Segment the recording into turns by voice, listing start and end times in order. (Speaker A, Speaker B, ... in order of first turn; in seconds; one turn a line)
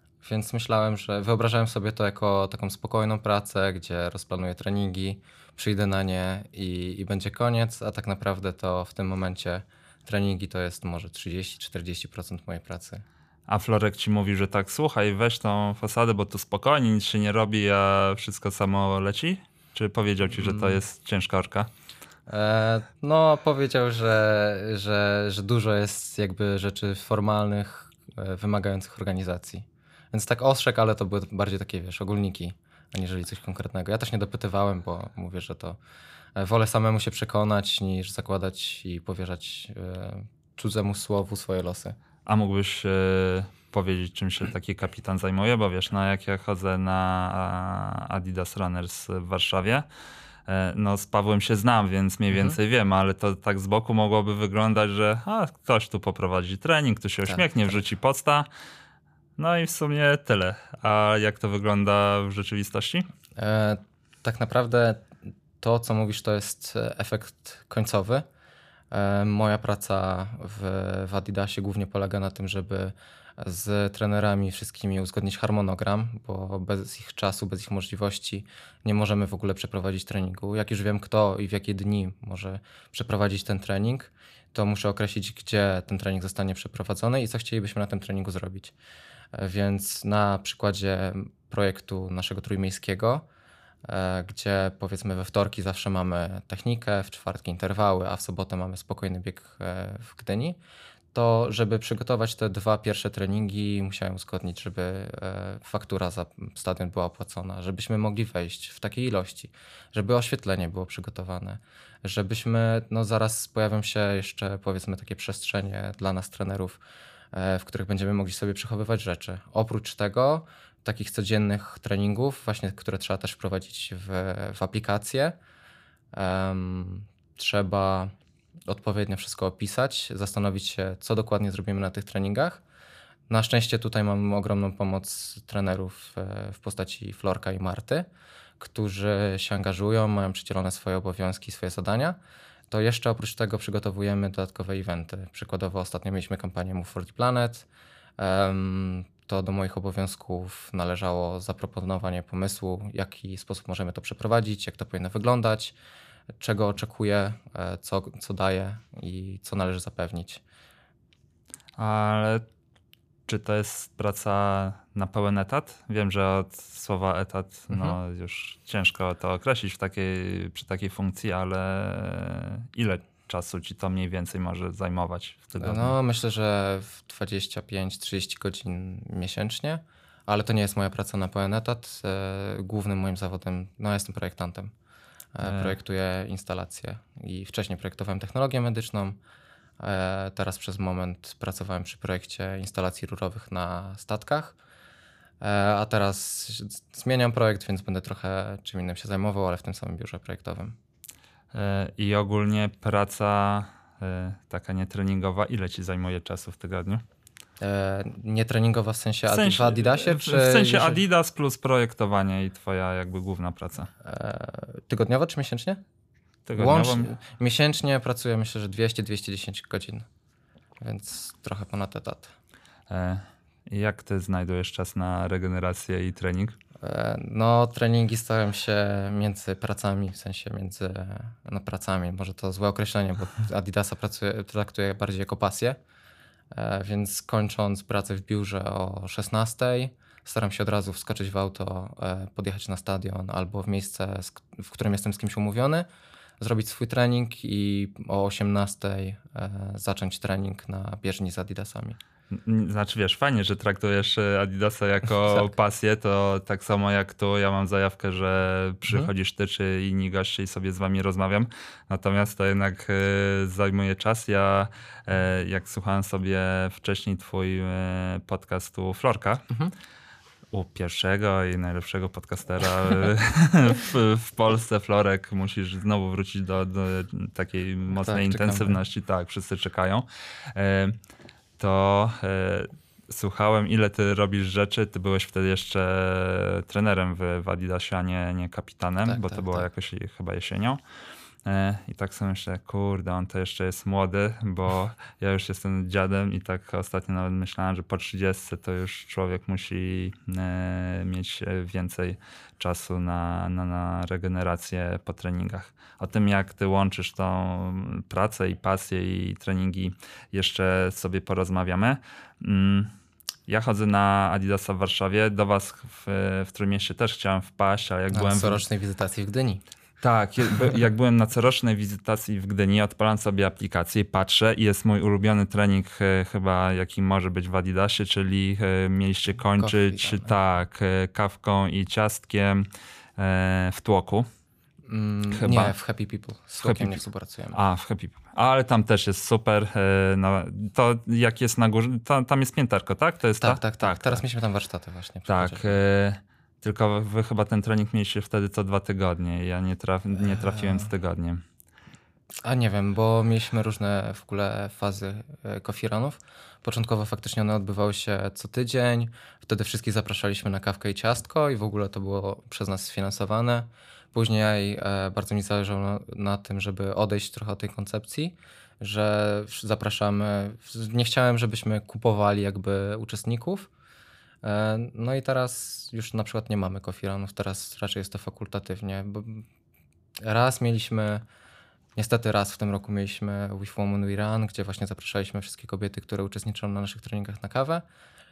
Speaker A: 0.2-13.0
Speaker B: 13.5-21.7
Speaker A: 20.4-20.8
Speaker A: 22.3-35.8
Speaker A: 36.4-42.0
Speaker B: 42.2-49.9
Speaker B: 50.5-58.5
Speaker A: 57.2-57.8
Speaker B: 59.4-63.1
Speaker A: 63.4-65.1
Speaker A: 65.6-68.2
Speaker A: 68.9-88.7
Speaker A: 89.3-93.2
Speaker A: 93.8-100.6
Speaker A: 101.1-116.8
Speaker A: 117.3-125.4
Speaker A: 126.1-128.1
Speaker A: 128.7-132.6
Speaker A: 133.3-138.1
Speaker A: 138.6-142.2
Speaker A: 142.7-147.7
Speaker A: 148.2-155.7
Speaker A: 156.4-160.4
Speaker B: 161.8-162.4
Speaker B: 163.3-175.9
Speaker A: 167.7-168.0
Speaker A: 175.6-184.7
Speaker A: 185.3-189.2
Speaker B: 185.4-185.8
Speaker A: 189.8-194.6
Speaker A: 195.4-200.7
Speaker B: 201.5-207.0
Speaker A: 207.6-211.0
Speaker B: 209.3-213.9
Speaker A: 214.0-215.8
Speaker B: 216.4-217.1
Speaker A: 216.6-220.1
Speaker A: 220.8-222.3
Speaker B: 222.9-226.6
Speaker A: 226.8-235.8
Speaker A: 236.5-245.9
Speaker A: 246.4-252.0
Speaker B: 252.3-269.4
Speaker B: 270.5-281.0
Speaker A: 277.9-278.8
Speaker B: 281.6-290.8
Speaker A: 289.1-289.7
Speaker B: 291.4-312.9
Speaker B: 313.5-318.6
Speaker A: 318.1-319.6
Speaker B: 320.0-334.3
Speaker A: 329.6-330.3
Speaker A: 334.9-337.6
Speaker B: 335.3-335.7
Speaker B: 336.6-337.0
Speaker B: 337.5-344.2
Speaker A: 343.4-345.8
Speaker B: 345.3-351.4
Speaker A: 350.3-350.9
Speaker A: 352.4-373.7
Speaker A: 374.4-379.4
Speaker A: 380.2-381.2
Speaker A: 381.9-387.8